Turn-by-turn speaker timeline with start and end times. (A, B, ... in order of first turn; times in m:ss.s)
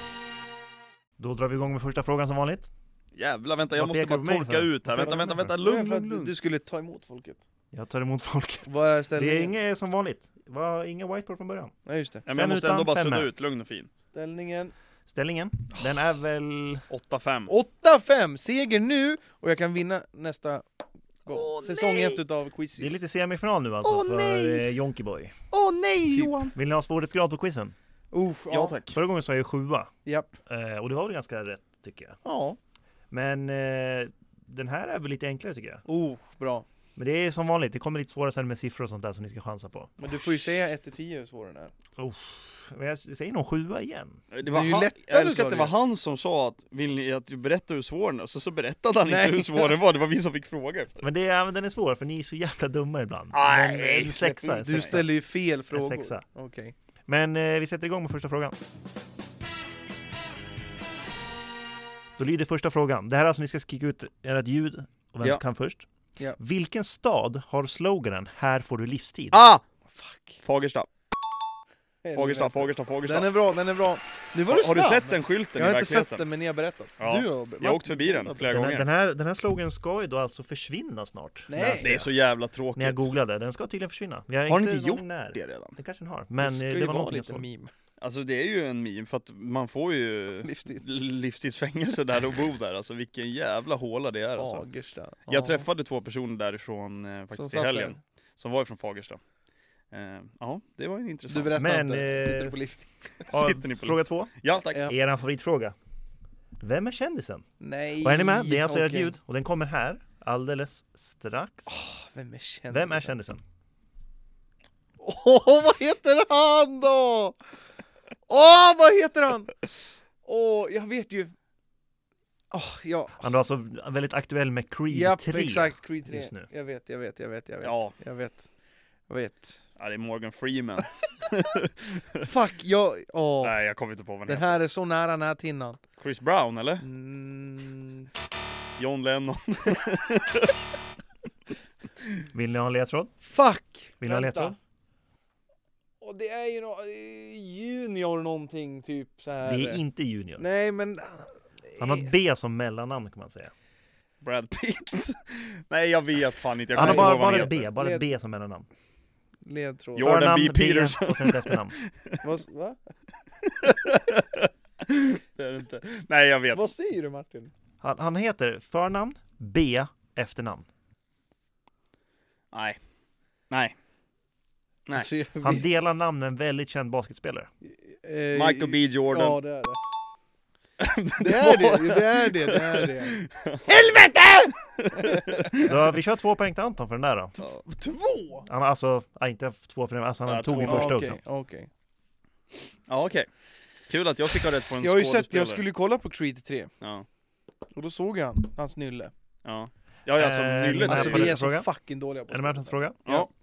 0:01.2-0:02.7 A
0:03.1-0:06.3 B
0:03.7-0:05.5 A
0:05.0-0:07.4 C
0:07.7-0:11.7 A
0:08.7-0:09.6 C
0:11.9-0:12.3 C
0:12.3-0:13.9 B
0:12.3-0:13.3 A
0:14.1-0:14.7 C
0:15.1-0:16.9 A
0:16.9-0:17.5 B
0:17.5-0:20.7 C
0:21.2-0:23.0 C
0:21.3-0:22.2 B
0:22.8-0:25.3 A
0:23.8-0:24.6 B
0:25.5-0:26.6 B
0:26.5-0:27.8 A
0:28.1-0:28.8 C
0:28.5-0:29.0 B
0:28.9-0:29.9 A
0:30.1-0:30.3 C
0:30.5-0:32.2 A
0:32.2-0:32.6 C
0:33.1-0:35.8 A
0:35.9-0:36.6 C
0:37.0-0:40.1 A
0:40.0-0:41.7 C
0:42.0-0:44.2 A
0:44.3-0:51.1 B
0:44.5-0:45.7 C
0:49.1-0:49.7 C
0:51.0-0:55.2 A
0:53.3-0:55.0 B
0:53.5-0:56.7 C
0:55.7-0:56.2 A
0:57.1-0:58.6 A
1:02.2-1:05.9 A
1:06.4-1:09.4 A
1:09.3-1:09.6 B
1:09.9-1:10.4 C
1:10.4-1:10.9 B
1:12.0-1:18.5 C
1:12.1-1:13.3 B
1:14.5-1:16.2 B
1:17.0-1:18.9 B
1:18.5-1:22.1 A
1:21.5-1:21.9 C
1:21.8-1:23.1 B
1:22.8-1:27.4 A
1:24.5-1:25.8 B
1:26.4-1:27.7 C
1:28.0-1:34.6 B
1:30.4-1:30.8 C
1:34.4-1:35.7 C
1:35.3-1:39.2 B
1:37.3-1:38.0 C
1:39.9-1:41.6 B
1:41.3-1:43.3 C
1:41.6-1:42.6 A
1:43.3-1:44.9 B
1:43.3-1:45.8 A
1:46.6-1:47.5 A
1:47.6-1:49.1 C
1:48.0-1:51.7 A
1:51.7-1:53.2 C
1:52.7-1:53.4 A
1:55.0-1:57.4 C
1:58.3-1:59.6 C
2:00.2-2:01.3 C
2:02.5-2:03.3 C
2:03.2-2:06.5 A
2:04.9-2:08.5 C
2:07.6-2:07.9 B
2:09.1-2:09.6 C
2:09.8-2:12.3 B
2:12.2-2:13.6 C
2:13.4-2:14.6 B
2:14.3-2:15.8 C
2:16.0-2:16.8 B
2:16.8-2:18.1 C
2:18.8-2:20.6 B
2:22.3-2:23.2 A
2:23.2-2:24.6 C
2:24.0-2:24.6 A
2:26.0-2:29.8 C
2:29.4-2:30.4 A
2:30.4-2:32.1 C
2:31.8-2:33.5 A
2:34.2-2:37.7 B
2:36.8-2:38.7 A
2:36.8-2:38.0 C
2:39.5-2:40.1 C
2:40.0-2:42.2 B
2:40.0-2:41.8 A
2:42.2-2:42.8 C
2:43.4-2:46.6 B
2:46.5-2:47.5 C
2:47.8-2:50.7 A
2:52.5-2:52.8 B
2:53.5-2:53.8 B
2:55.0-2:55.7 C
2:55.4-2:57.5 A
2:57.7-2:59.8 C
2:58.3-2:59.4 B
3:00.8-3:04.0 B
3:01.2-3:05.8 C
3:04.6-3:05.7 B
3:05.6-3:07.4 A
3:07.4-3:08.5 C
3:08.5-3:11.2 A
3:10.3-3:10.9 B
3:10.6-3:11.7 C
3:12.9-3:13.3 B
3:13.9-3:15.6 B
3:14.8-3:16.7 C
3:16.8-3:17.1 B
3:17.8-3:19.1 C
3:19.4-3:21.4 B
3:20.2-3:21.7 A
3:20.8-3:23.2 C
3:22.3-3:23.2 A